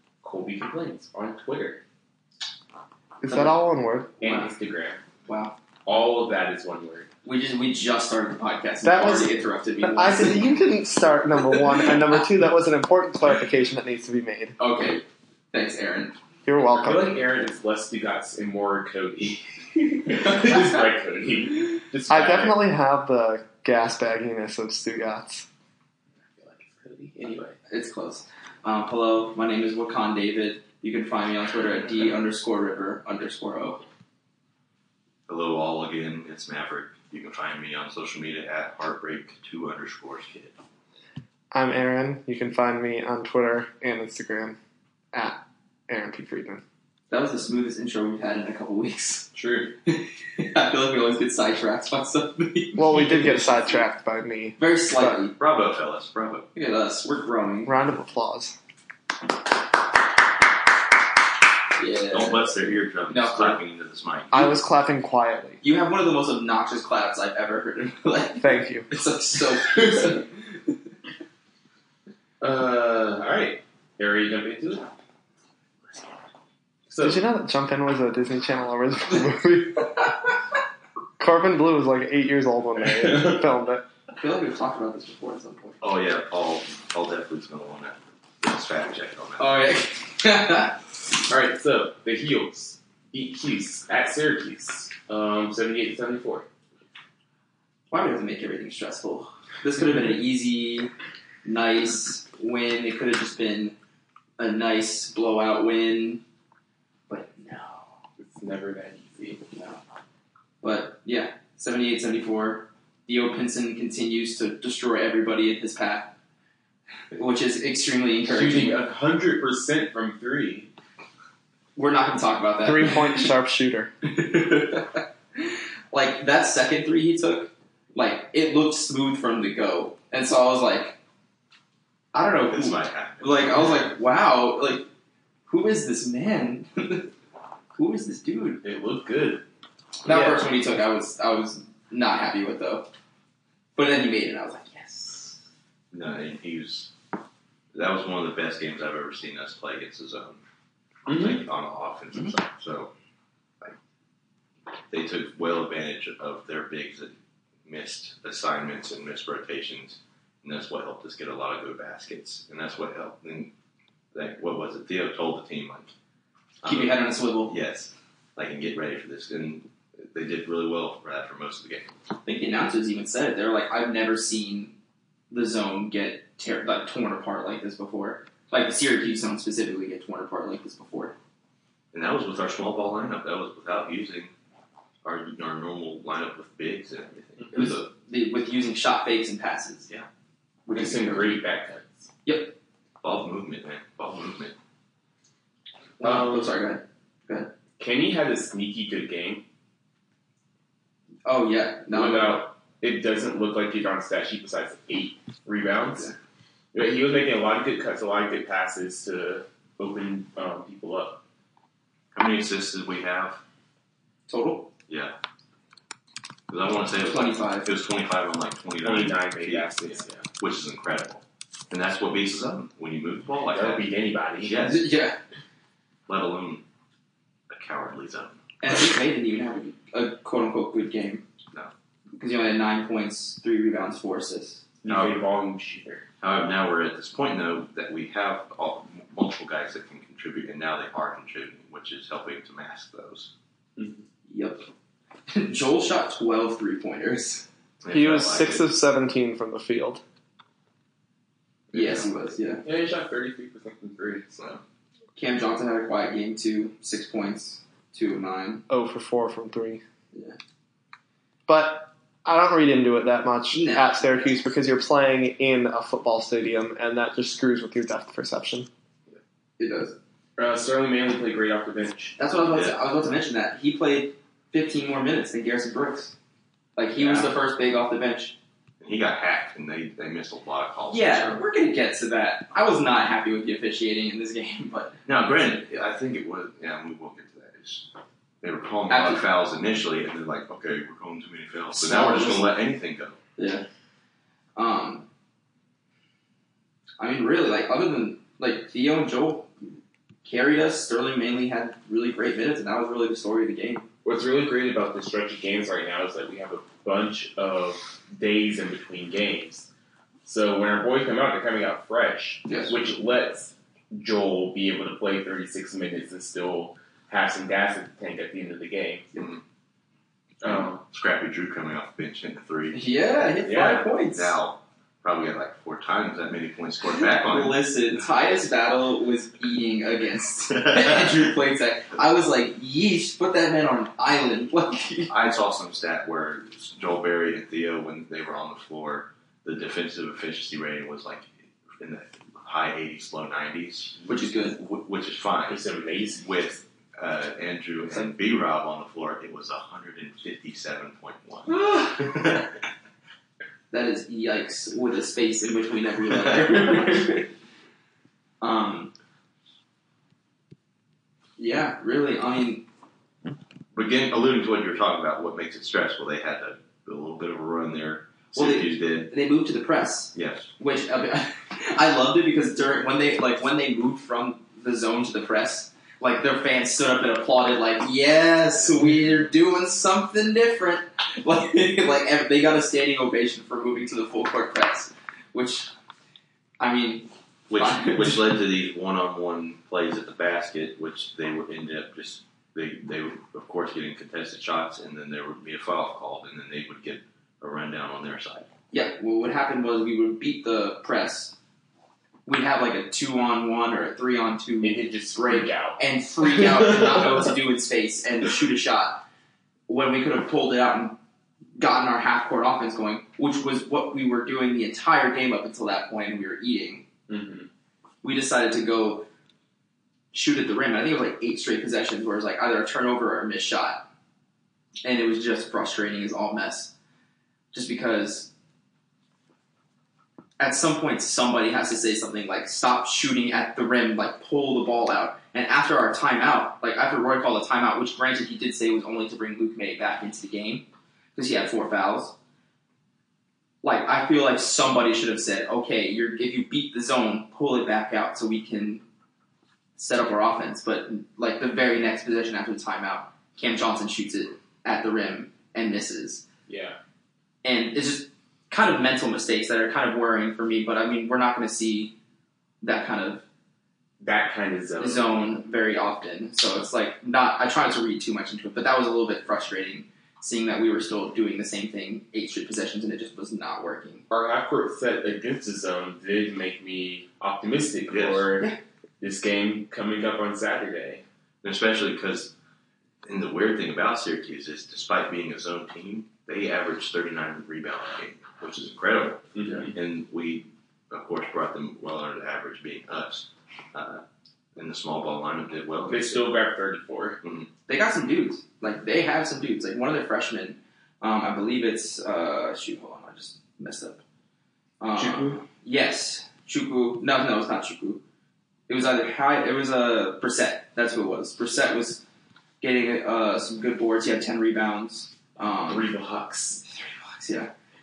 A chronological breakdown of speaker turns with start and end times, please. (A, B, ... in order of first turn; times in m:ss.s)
0:00.2-0:01.8 A
0:03.2-0:04.1 B
0:04.2-0:05.0 A
0:04.2-0:04.5 C
0:05.2-0:05.6 C
0:05.8-0:07.1 A
0:07.2-0:10.5 C
0:08.8-0:14.6 B
0:14.6-0:16.2 C
0:16.4-0:17.2 B
0:16.7-0:22.6 A
0:22.1-0:25.5 B
0:26.4-0:27.6 A
0:27.7-0:33.8 C
0:35.3-0:40.6 D
0:41.5-0:44.6 B
0:45.1-0:46.6 B
0:47.1-0:49.3 C
0:49.4-0:49.7 D
0:49.8-0:53.3 C
0:52.8-0:55.2 B
0:54.6-0:55.3 C
0:55.4-0:56.5 D
0:56.5-0:57.7 C
0:57.6-0:58.6 B
1:01.8-1:02.5 C
1:02.1-1:04.4 D
1:03.1-1:03.6 C
1:04.3-1:05.6 B
1:05.6-1:10.5 C
1:08.4-1:08.9 B
1:12.4-1:14.9 A
1:16.9-1:17.2 A
1:17.0-1:20.1 B
1:21.2-1:23.8 B
1:22.8-1:23.5 A
1:24.1-1:25.8 C
1:25.8-1:29.7 D
1:29.4-1:30.8 C
1:31.3-1:36.4 A
1:37.9-1:40.9 C
1:41.4-1:43.7 C
1:44.4-1:46.2 C
1:47.1-1:47.9 C
1:48.2-1:49.5 A
1:49.5-1:49.8 C
1:50.6-1:56.1 C
1:57.1-1:58.8 C
1:58.2-2:00.7 A
2:01.8-2:03.3 C
2:02.6-2:03.9 B
2:04.0-2:11.0 C
2:12.1-2:14.9 C
2:12.4-2:13.7 D
2:15.5-2:17.1 C
2:17.8-2:18.6 C
2:18.6-2:19.4 A
2:20.0-2:22.9 C
2:20.1-2:20.4 B
2:23.8-2:25.4 C
2:25.9-2:26.9 D
2:27.7-2:30.4 D
2:31.0-2:31.4 A
2:31.1-2:32.9 D
2:34.9-2:37.1 D
2:37.6-2:43.5 D
2:44.1-2:45.9 D
2:46.6-2:51.9 D
2:46.6-2:47.5 C
2:52.2-2:54.7 C
2:55.3-3:01.1 C
3:01.9-3:04.3 D
3:05.0-3:07.8 D
3:07.5-3:09.9 C
3:10.6-3:11.4 C
3:10.7-3:12.1 A
3:12.2-3:12.5 C
3:13.0-3:14.5 D
3:16.0-3:17.5 C
3:16.0-3:16.6 A
3:17.8-3:19.4 A
3:21.2-3:22.4 C
3:21.9-3:26.1 A
3:26.7-3:31.2 A
3:32.1-3:33.4 D
3:34.3-3:34.7 C
3:34.9-3:35.1 D
3:36.5-3:43.9 D
3:37.0-3:37.7 C
3:38.8-3:40.2 A
3:43.5-3:44.7 A
3:44.4-3:44.9 D
3:44.6-3:45.2 C
3:46.1-3:46.6 D
3:47.5-3:48.4 D
3:48.6-3:51.2 C
3:52.2-3:54.6 C
3:54.8-3:56.0 A
3:54.8-3:55.2 D
3:56.2-4:03.3 D
4:03.8-4:04.0 A
4:04.3-4:04.6 C
4:05.3-4:07.4 C
4:07.8-4:08.7 D
4:07.9-4:10.0 B
4:11.7-4:12.1 D
4:11.7-4:12.6 C
4:12.6-4:14.4 A
4:15.2-4:18.6 C
4:18.7-4:19.8 B
4:21.5-4:28.7 B
4:23.5-4:24.2 C
4:29.6-4:30.0 C
4:30.4-4:32.2 A
4:32.2-4:36.1 C
4:32.4-4:32.8 D
4:36.8-4:38.4 C
4:37.0-4:37.3 A
4:38.8-4:41.4 D
4:40.9-4:45.0 C
4:45.0-4:47.9 D
4:48.4-4:53.2 D
4:48.9-4:49.2 C
4:51.7-4:52.5 C
4:53.4-4:53.6 C
4:54.6-4:55.1 C
4:57.0-4:59.5 C
5:00.2-5:03.8 C
5:04.0-5:09.7 A
5:10.2-5:19.3 A
5:12.4-5:12.7 C
5:19.2-5:19.4 D
5:20.4-5:20.8 A
5:20.4-5:22.8 D
5:22.7-5:24.4 C
5:23.5-5:23.8 A
5:23.6-5:27.6 D
5:26.8-5:35.1 C
5:30.5-5:31.2 D
5:35.1-5:45.6 D
5:44.0-5:44.6 C
5:45.5-5:46.3 A
5:46.2-5:52.5 D
5:51.5-5:52.0 A
5:53.7-5:57.3 C
5:58.4-5:58.9 C
6:01.4-6:02.6 C
6:03.7-6:09.1 D
6:08.3-6:25.7 C
6:10.1-6:10.5 D
6:26.6-6:28.3 C
6:27.5-6:38.5 D
6:38.7-6:41.3 C
6:42.2-6:49.0 C
6:44.6-6:45.8 A
6:49.7-6:51.0 C
6:51.6-6:56.8 C
6:57.1-6:57.5 A
6:58.0-6:59.0 C
7:00.1-7:03.8 C
7:04.8-7:06.7 C
7:07.5-7:08.3 C
7:10.4-7:22.1 C
7:23.6-7:28.8 C
7:29.8-7:36.2 C
7:36.5-7:36.8 A
7:37.4-7:41.9 C
7:42.6-7:43.2 C
7:44.0-7:45.4 A
7:44.8-7:54.0 C
7:54.1-7:58.5 A
7:57.9-7:58.3 D
7:59.0-8:01.0 A
8:01.4-8:02.3 D
8:03.0-8:14.0 D
8:09.3-8:09.7 A
8:14.6-8:16.3 D
8:15.9-8:17.2 A
8:17.2-8:17.5 D
8:17.7-8:24.0 C
8:24.8-8:28.0 C
8:25.0-8:25.4 D
8:28.7-8:32.0 C
8:32.6-8:35.9 C
8:35.7-8:36.6 A
8:36.6-8:37.5 C